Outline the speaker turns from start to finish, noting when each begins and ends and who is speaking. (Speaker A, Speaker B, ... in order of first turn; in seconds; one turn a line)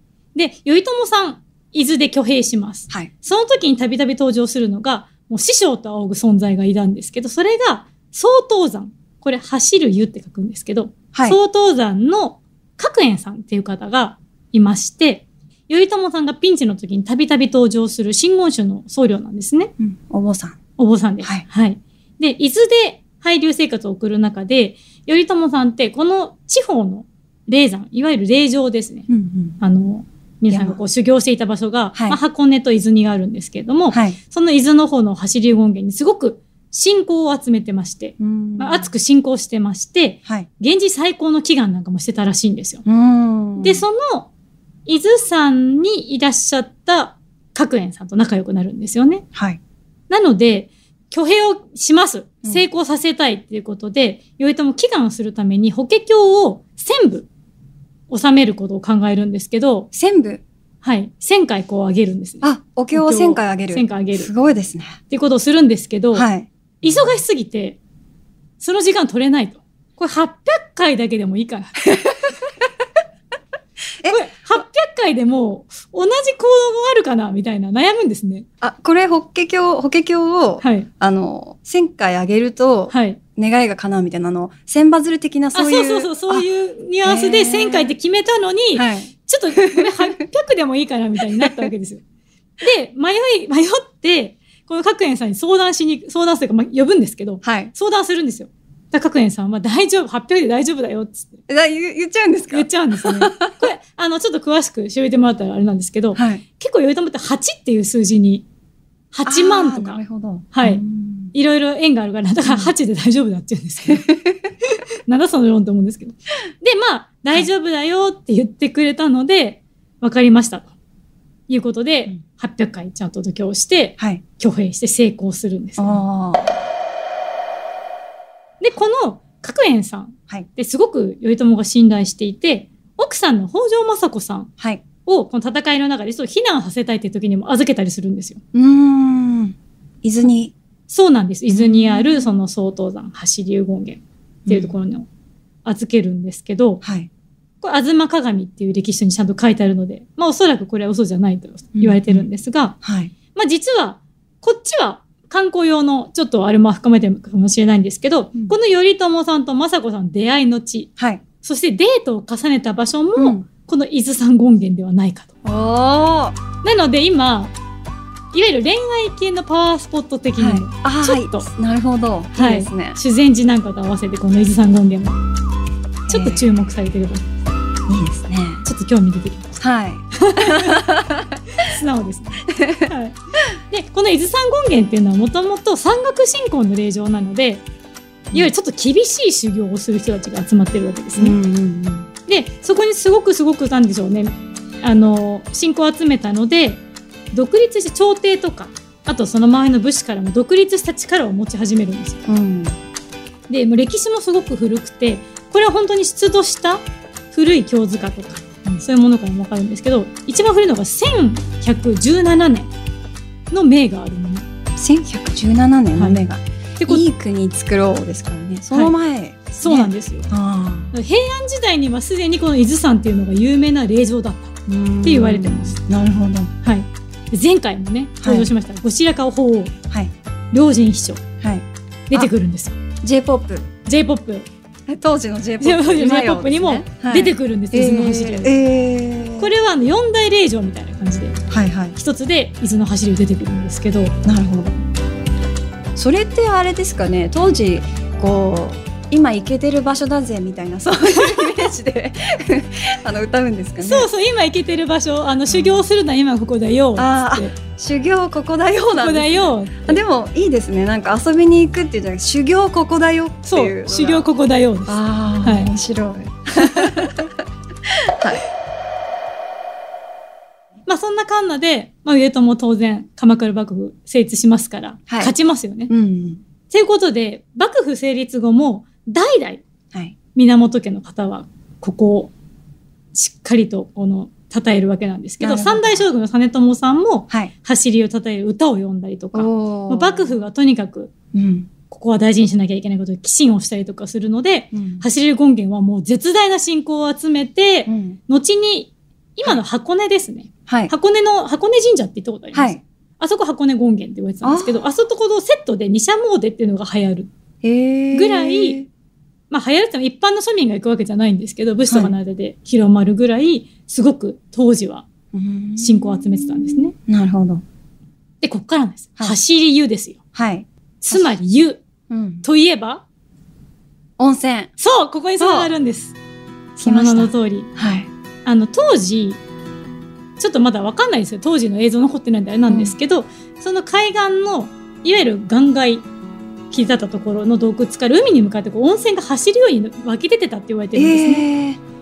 Speaker A: 0.3-19.7
Speaker B: 11.1-11.4
Speaker B: 19.8-20.6
Speaker A: 20.8-29.1
Speaker B: 29.1-29.6
Speaker A: 29.6-42.8
Speaker B: 30.5-30.8
Speaker B: 31.9-32.2
Speaker B: 33.9-34.2
Speaker B: 38.2-38.9
Speaker B: 42.9-43.9
Speaker A: 43.6-44.3
Speaker A: 44.9-49.2
Speaker A: 50.1-57.3
Speaker A: 58.1-59.9
Speaker B: 59.9-60.4
Speaker A: 60.8-64.3
Speaker B: 62.4-65.0
Speaker A: 65.1-66.2
Speaker B: 66.1-66.5
Speaker A: 66.8-67.8
Speaker A: 68.6-72.1
Speaker A: 74.1-78.5
Speaker B: 78.6-86.5
Speaker A: 80.6-80.9
Speaker A: 82.9-83.2
Speaker A: 85.5-92.0
Speaker B: 87.0-87.9
Speaker B: 88.7-90.2
Speaker B: 91.4-91.7
Speaker A: 92.6-101.4
Speaker B: 97.4-97.7
Speaker B: 101.5-103.6
Speaker A: 102.5-108.4
Speaker B: 106.1-106.4
Speaker A: 109.1-110.0
Speaker B: 109.2-111.3
Speaker A: 110.5-110.8
Speaker A: 111.3-114.0
Speaker B: 112.4-112.7
Speaker B: 113.8-114.5
Speaker A: 115.0-120.7
Speaker A: 121.5-126.0
Speaker B: 125.8-126.5
Speaker A: 128.6-134.5
Speaker A: 135.0-138.4
Speaker B: 138.5-140.5
Speaker A: 140.9-145.1
Speaker B: 141.5-142.4
Speaker B: 144.4-144.7
Speaker A: 145.6-146.8
Speaker B: 146.8-147.1
Speaker A: 147.6-152.8
Speaker B: 151.8-152.3
Speaker B: 152.8-153.1
Speaker A: 153.3-160.9
Speaker A: 161.4-165.3
Speaker B: 163.2-163.4
Speaker B: 165.4-166.4
Speaker A: 166.6-167.5
Speaker A: 168.3-171.5
Speaker B: 170.4-173.0
Speaker A: 172.3-175.2
Speaker B: 176.1-176.6
Speaker A: 176.1-177.2
Speaker B: 177.9-178.7
Speaker A: 178.6-179.6
Speaker B: 179.6-181.4
Speaker A: 180.2-180.9
Speaker A: 181.5-183.2
Speaker B: 182.5-182.9
Speaker A: 183.7-187.6
Speaker A: 188.3-191.4
Speaker B: 191.2-192.1
Speaker A: 192.3-202.2
Speaker B: 202.3-202.8
Speaker A: 203.5-212.7
Speaker A: 213.5-214.4
Speaker B: 214.8-220.9
Speaker A: 215.9-216.2
Speaker A: 216.8-217.1
Speaker A: 219.5-220.3
Speaker A: 220.9-225.8
Speaker B: 224.7-226.5
Speaker A: 226.6-229.7
Speaker B: 228.2-228.5
Speaker A: 230.5-231.2
Speaker B: 231.4-232.3
Speaker A: 232.1-232.8
Speaker B: 233.0-233.7
Speaker A: 233.8-234.5
Speaker B: 234.9-239.5
Speaker A: 235.6-238.5
Speaker A: 239.4-241.4
Speaker B: 241.5-241.9
Speaker A: 241.9-244.1
Speaker B: 244.2-244.8
Speaker B: 245.9-254.1
Speaker A: 251.1-251.5
Speaker A: 253.8-257.5
Speaker B: 255.5-255.8
Speaker B: 256.9-264.3
Speaker A: 258.9-260.0
Speaker A: 263.4-265.7
Speaker B: 264.9-268.4
Speaker A: 266.6-267.1
Speaker A: 270.9-275.9
Speaker B: 275.1-275.3
Speaker B: 275.9-276.4
Speaker A: 276.7-279.6
Speaker A: 280.3-282.3
Speaker A: 283.1-291.1
Speaker B: 285.4-286.1
Speaker B: 289.3-290.5
Speaker B: 291.3-291.7
Speaker A: 291.9-307.3
Speaker B: 294.7-295.0
Speaker B: 297.9-298.2
Speaker B: 302.5-302.8
Speaker B: 304.4-304.9
Speaker B: 307.6-308.9
Speaker A: 308.1-308.8
Speaker A: 309.5-315.0
Speaker B: 311.9-312.1
Speaker B: 315.3-317.6
Speaker A: 315.8-316.9
Speaker A: 318.4-320.2
Speaker B: 320.3-321.4
Speaker A: 321.0-321.8
Speaker B: 322.1-322.4
Speaker A: 322.4-323.0
Speaker B: 324.2-324.7
Speaker A: 324.8-326.1
Speaker B: 325.4-325.7
Speaker A: 326.8-327.7
Speaker B: 326.8-328.1
Speaker A: 328.4-329.4
Speaker A: 330.4-336.1
Speaker B: 332.7-332.9
Speaker A: 336.7-341.5
Speaker B: 340.9-341.8